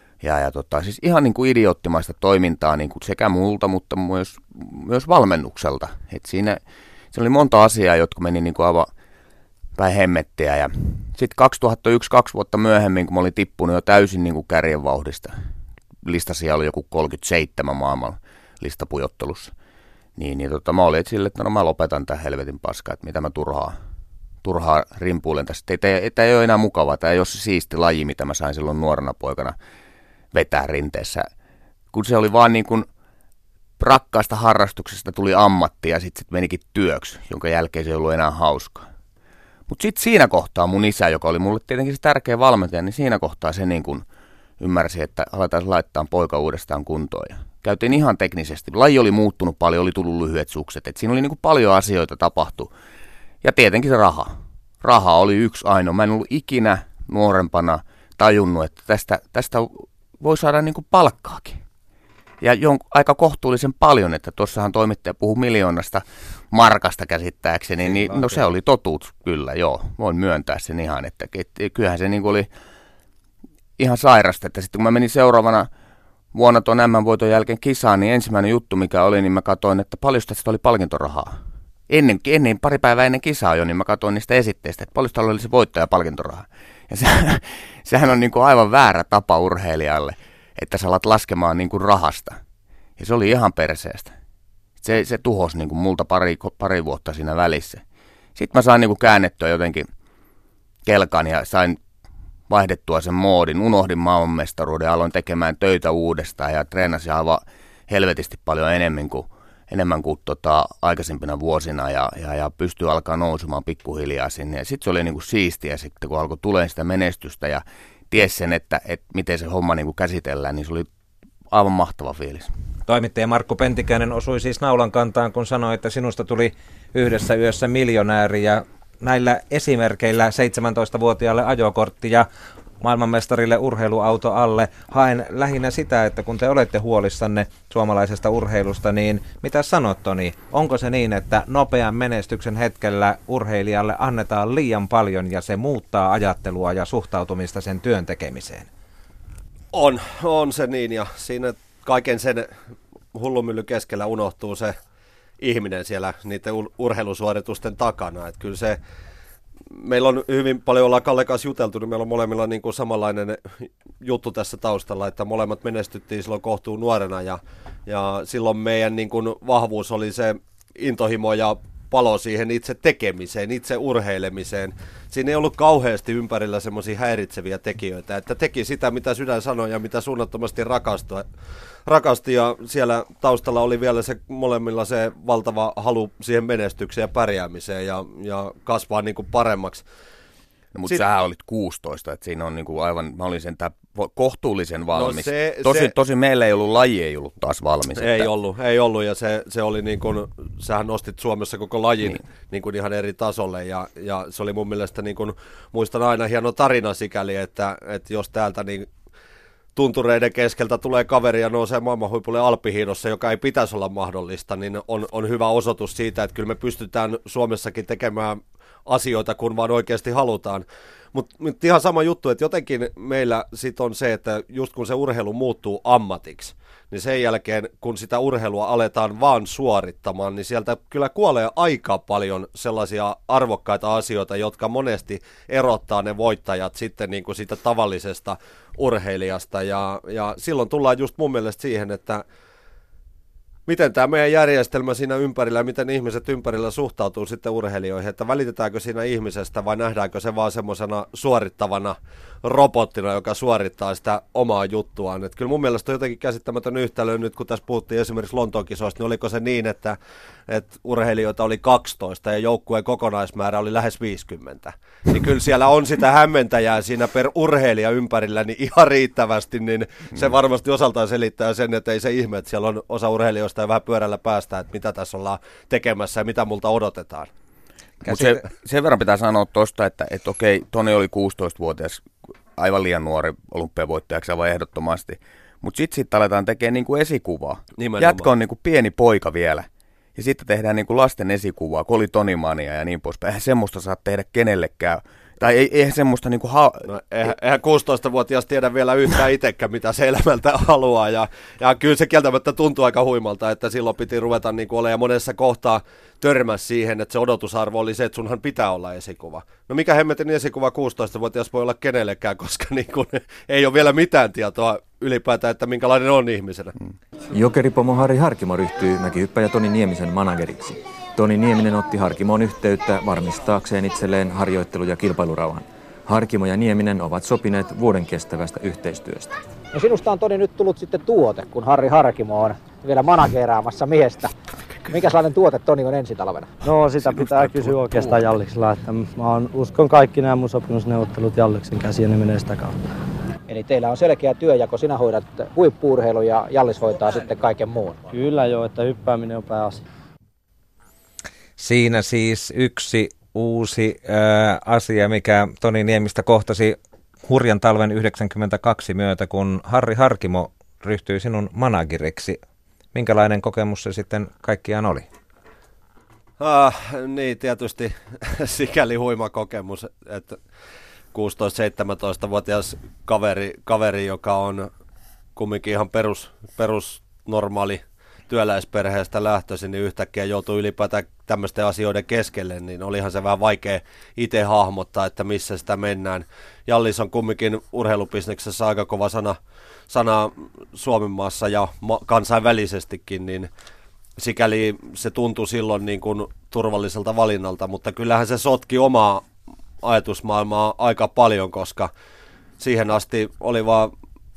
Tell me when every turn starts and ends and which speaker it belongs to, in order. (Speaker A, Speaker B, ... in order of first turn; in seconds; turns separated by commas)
Speaker A: 0.2-6.6, Speaker A: 7.1-8.9, Speaker A: 9.8-15.4, Speaker A: 16.0-19.5, Speaker A: 20.2-23.8, Speaker A: 24.4-29.6, Speaker A: 30.3-31.3, Speaker A: 31.9-32.9, Speaker A: 33.8-38.9, Speaker A: 39.7-44.0, Speaker A: 44.6-52.7, Speaker A: 53.4-61.6, Speaker A: 62.4-72.5, Speaker A: 73.8-75.7, Speaker A: 76.3-92.4, Speaker A: 93.0-94.2, Speaker A: 94.8-97.8, Speaker A: 98.4-99.9, Speaker A: 100.8-101.8, Speaker A: 102.5-120.9, Speaker A: 121.5-122.5, Speaker B: 122.9-132.3, Speaker B: 132.8-148.7, Speaker C: 149.7-152.5, Speaker C: 153.1-154.8, Speaker C: 155.4-158.8, Speaker C: 159.7-181.2, Speaker C: 181.9-189.8, Speaker A: 190.8-198.3, Speaker C: 194.9-195.9, Speaker C: 198.0-208.9, Speaker C: 209.8-242.2, Speaker C: 243.7-260.0, Speaker C: 260.5-277.3, Speaker A: 278.0-296.9, Speaker C: 287.8-288.3, Speaker C: 296.9-316.7, Speaker D: 317.3-329.4, Speaker E: 329.7-334.3, Speaker E: 334.9-336.5, Speaker F: 336.6-342.8, Speaker A: 337.4-338.1, Speaker E: 343.5-348.0, Speaker F: 348.1-349.8, Speaker B: 351.6-362.4, Speaker B: 362.9-365.1, Speaker C: 366.4-370.4, Speaker C: 371.1-374.7, Speaker C: 375.4-389.4, Speaker C: 389.9-393.5, Speaker C: 394.2-399.2, Speaker C: 399.8-401.9, Speaker C: 402.6-403.9